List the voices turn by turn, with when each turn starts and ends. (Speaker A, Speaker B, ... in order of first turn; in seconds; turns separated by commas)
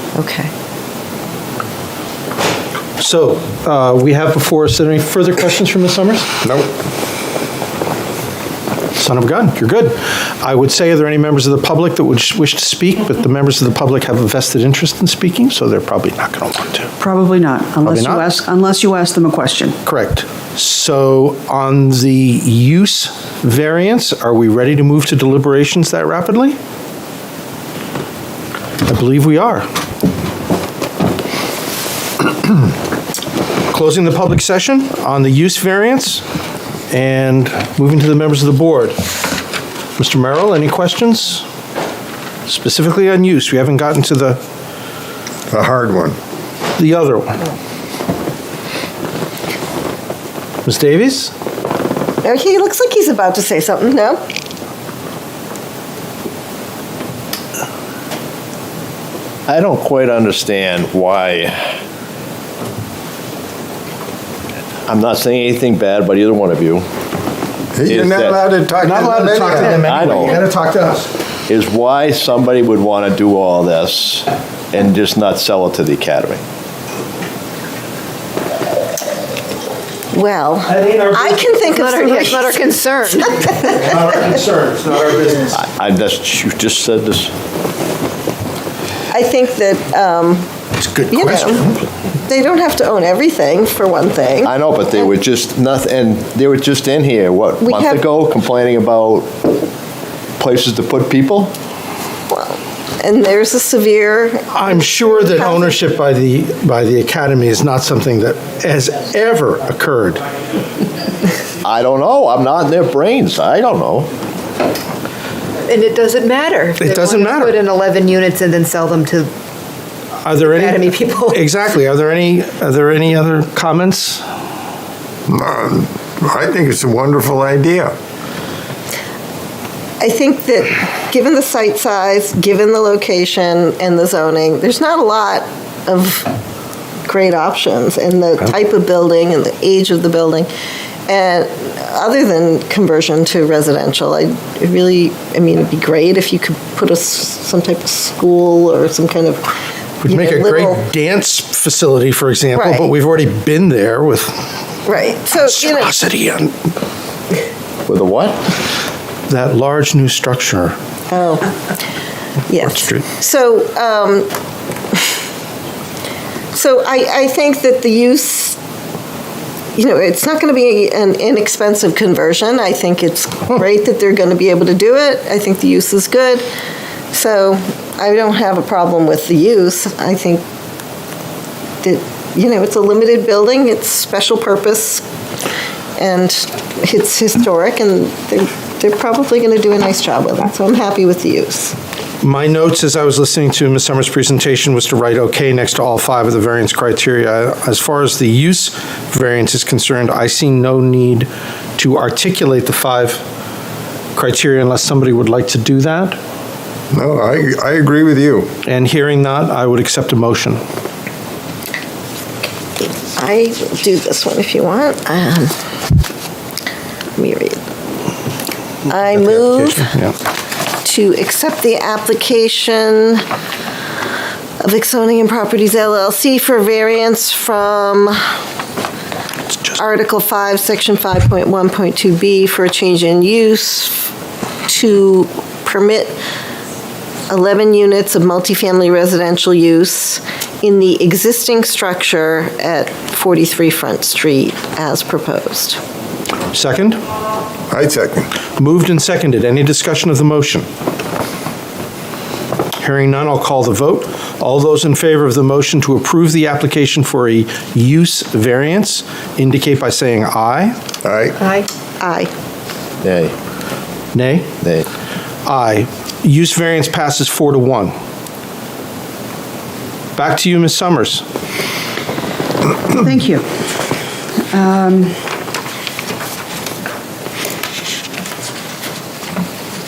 Speaker A: 0.1-0.5, Speaker B: 3.0-6.5, Speaker B: 9.0-16.9, Speaker C: 17.0-19.8, Speaker B: 17.8-18.3, Speaker B: 19.9-26.6, Speaker B: 28.9-29.7, Speaker B: 33.7-36.2, Speaker B: 36.9-39.0, Speaker B: 40.0-41.5, Speaker B: 42.5-44.4, Speaker D: 45.5-46.2, Speaker B: 46.8-47.4, Speaker B: 50.7-51.3, Speaker A: 52.2-54.2, Speaker E: 59.5-61.6, Speaker E: 64.9-66.9, Speaker D: 67.7-69.8, Speaker E: 67.9-68.5, Speaker B: 68.8-71.1, Speaker E: 69.7-70.4, Speaker E: 71.5-76.4, Speaker A: 80.1-82.8, Speaker B: 80.7-81.7, Speaker F: 81.8-83.8, Speaker B: 83.4-85.5, Speaker E: 85.5-87.3, Speaker A: 89.1-90.5, Speaker B: 90.8-91.8, Speaker A: 91.1-91.7, Speaker A: 92.2-94.5, Speaker E: 94.4-99.3, Speaker A: 97.6-98.0, Speaker E: 100.4-101.5, Speaker A: 102.3-105.8, Speaker B: 104.5-110.2, Speaker E: 111.6-114.1, Speaker F: 115.7-119.3, Speaker B: 116.8-117.6, Speaker B: 120.2-124.2, Speaker F: 120.4-121.4, Speaker D: 125.3-127.9, Speaker A: 130.0-136.3, Speaker A: 137.1-140.5, Speaker A: 141.1-149.5, Speaker A: 150.1-150.8, Speaker B: 150.1-154.4, Speaker A: 152.6-152.9, Speaker A: 154.9-155.9, Speaker B: 155.3-156.5, Speaker E: 157.9-158.4, Speaker B: 159.3-160.8, Speaker A: 161.1-161.5, Speaker A: 162.5-164.3, Speaker B: 162.6-163.0, Speaker A: 166.5-168.6, Speaker A: 169.8-176.4, Speaker A: 177.1-180.4, Speaker A: 181.8-185.1, Speaker A: 186.0-191.8, Speaker B: 192.2-203.2, Speaker B: 204.2-206.2, Speaker D: 206.9-208.5, Speaker B: 208.7-210.6, Speaker A: 213.1-215.5, Speaker A: 217.2-217.6, Speaker A: 218.9-219.9, Speaker B: 219.2-220.1, Speaker A: 220.8-223.2, Speaker A: 224.6-228.3, Speaker A: 229.7-234.1, Speaker A: 234.7-236.2, Speaker A: 237.3-245.8, Speaker B: 246.5-247.0, Speaker D: 247.7-248.3, Speaker B: 248.5-250.7, Speaker B: 252.8-260.8, Speaker D: 261.0-261.4, Speaker F: 261.4-261.7, Speaker A: 262.0-262.3, Speaker E: 263.0-263.3, Speaker B: 264.1-264.6, Speaker B: 265.5-267.9, Speaker B: 270.2-271.2, Speaker C: 272.9-273.5, Speaker C: 274.4-275.2